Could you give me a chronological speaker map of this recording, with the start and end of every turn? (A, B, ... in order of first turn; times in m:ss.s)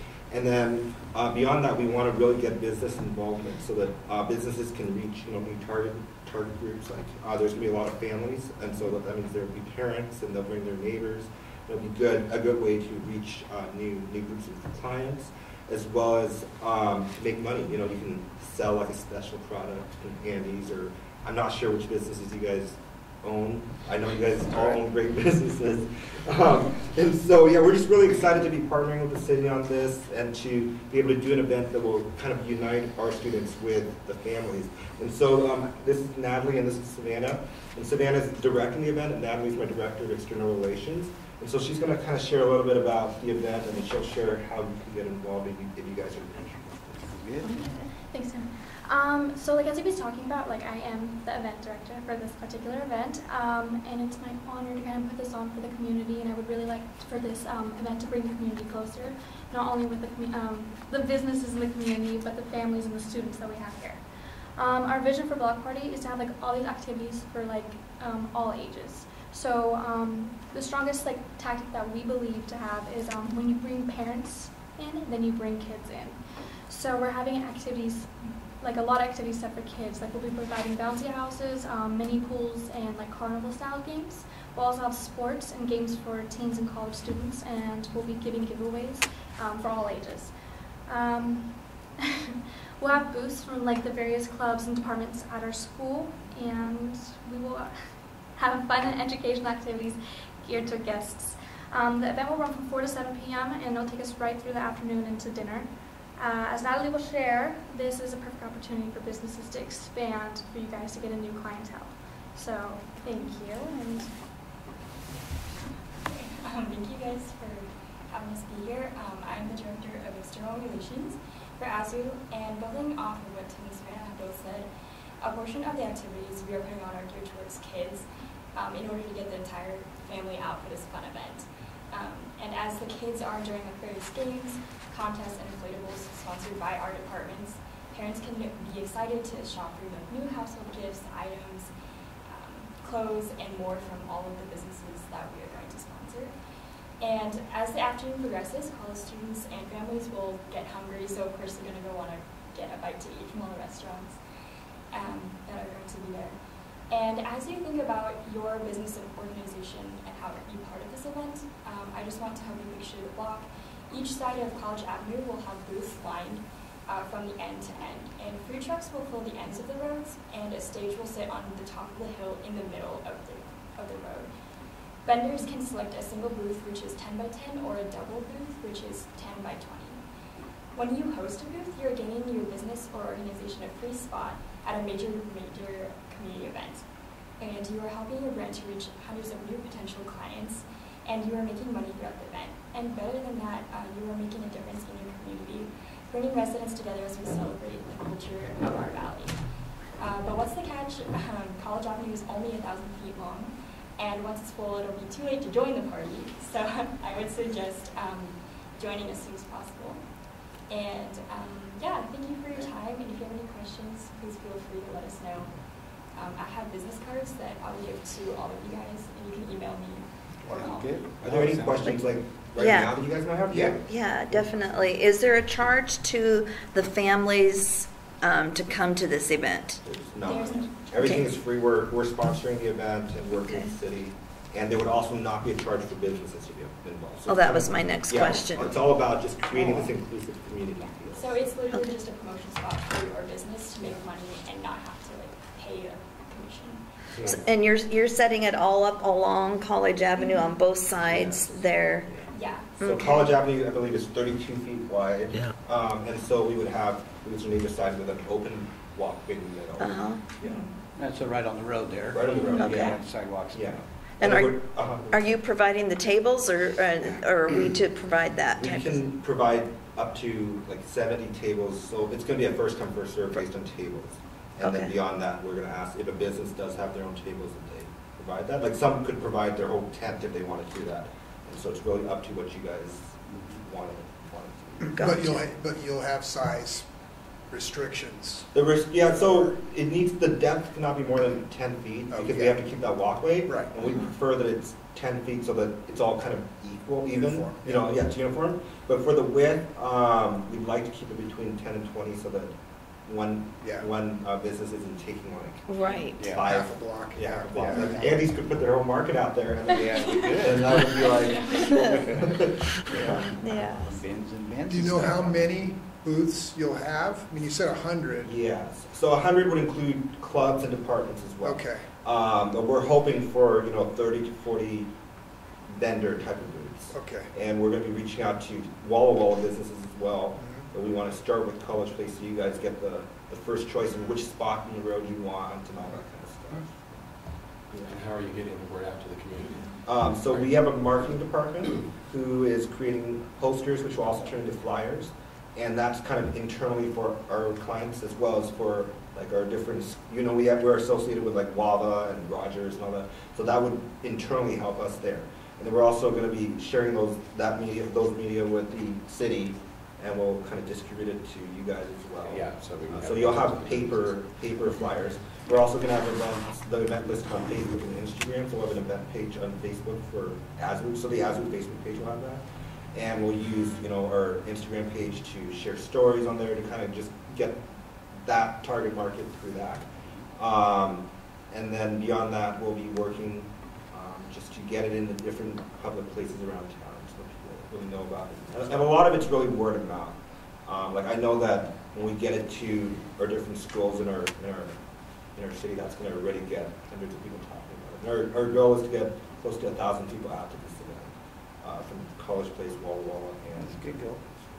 0:00.3-0:47.1 A
0:47.0-0:47.8 B
0:47.6-1:04.0 C
1:04.6-1:30.3 C
1:30.8-1:37.7 C
1:38.3-1:54.1 C
1:56.0-2:04.7 D
2:05.2-2:21.7 D
2:22.2-2:26.3 D
2:27.0-2:34.2 D
2:34.9-2:36.4 D
2:36.9-2:54.3 D
2:55.0-3:00.0 D
3:00.7-3:06.8 D
3:07.4-3:19.4 D
3:20.0-3:30.0 D
3:30.7-3:35.6 D
3:36.1-3:41.0 D
3:40.4-3:42.0 B
3:41.2-3:43.9 A
3:42.6-3:43.0 E
3:43.5-3:43.8 B
3:43.8-3:49.8 E
3:49.8-4:01.5 A
3:50.2-3:50.8 D
3:57.3-3:58.8 E
4:00.8-4:07.2 D
4:07.2-4:12.1 E
4:11.1-4:11.5 F
4:12.3-4:13.0 D
4:12.8-4:13.2 E
4:12.8-4:20.1 A
4:19.8-4:20.2 E
4:20.4-4:23.8 B
4:22.1-4:23.0 A
4:22.5-4:23.0 E
4:23.5-4:25.3 A
4:24.2-4:24.6 E
4:25.1-4:29.0 E
4:28.5-4:45.2 A
4:34.6-4:34.9 E
4:44.9-4:46.9 G
4:44.9-4:45.4 E
4:47.5-4:49.6 G
4:48.5-5:02.5 A
4:52.1-4:52.6 G
4:53.5-4:53.7 G
4:57.1-4:57.8 G
5:03.0-5:13.2 A
5:05.7-5:06.3 E
5:06.2-5:06.5 B
5:06.4-5:08.1 G
5:07.5-5:08.3 B
5:09.7-5:15.5 B
5:13.0-5:14.0 E
5:14.7-5:18.3 G
5:18.2-5:24.9 A
5:21.4-5:21.8 G
5:25.7-5:36.9 A
5:26.9-5:27.3 G
5:30.4-5:30.6 G
5:37.8-5:39.8 F
5:39.8-6:44.0 A
6:02.2-6:04.1 F
6:43.5-6:44.2 B